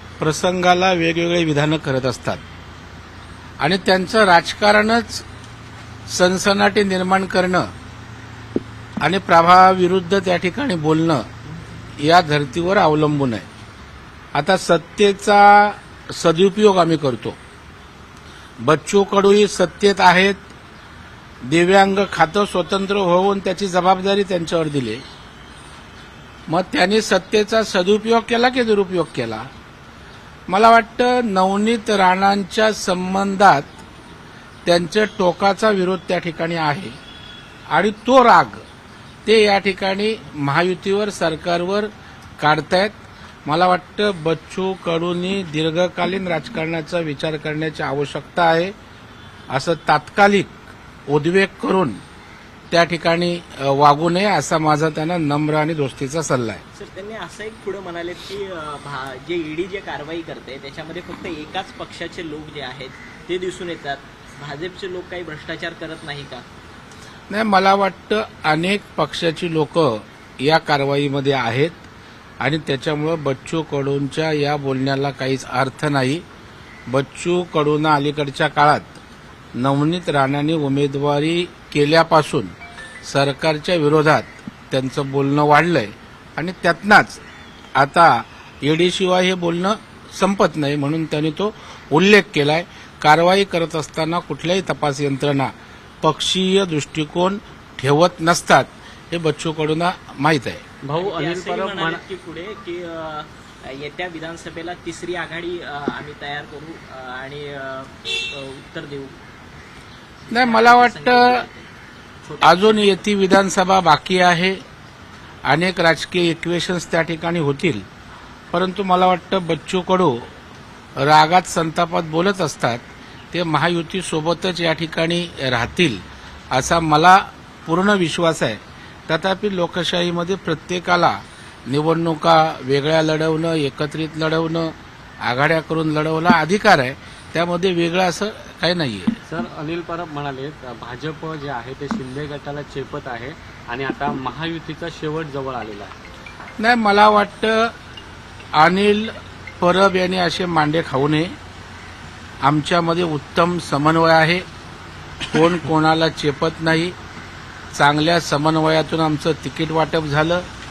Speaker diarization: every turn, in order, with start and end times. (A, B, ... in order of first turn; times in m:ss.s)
0:00.2-0:02.4 A
0:03.6-0:05.2 A
0:06.1-0:07.7 A
0:09.0-0:11.2 A
0:12.0-0:13.5 A
0:14.3-0:17.4 A
0:18.6-0:20.4 A
0:21.4-0:25.0 A
0:26.5-0:29.5 A
0:30.5-0:33.8 A
0:34.7-0:37.0 A
0:37.7-0:38.6 A
0:39.2-0:48.7 A
0:49.5-0:52.0 A
0:52.7-0:56.6 A
0:56.7-1:06.4 B
1:07.3-1:11.8 A
1:12.4-1:16.2 A
1:16.9-1:19.0 A
1:19.6-1:27.2 A
1:27.8-1:40.6 A
1:40.9-1:42.0 C
1:41.0-1:49.2 B
1:50.3-1:51.4 A
1:50.3-1:51.7 B
1:52.2-1:53.0 B
1:52.4-1:54.6 A
1:55.5-1:57.8 A
1:58.5-2:00.2 A
2:01.0-2:19.2 A
2:19.3-2:26.0 C
2:26.6-2:27.7 A
2:28.6-2:31.4 A
2:32.4-2:34.4 A
2:35.3-2:37.0 A
2:37.7-2:40.5 A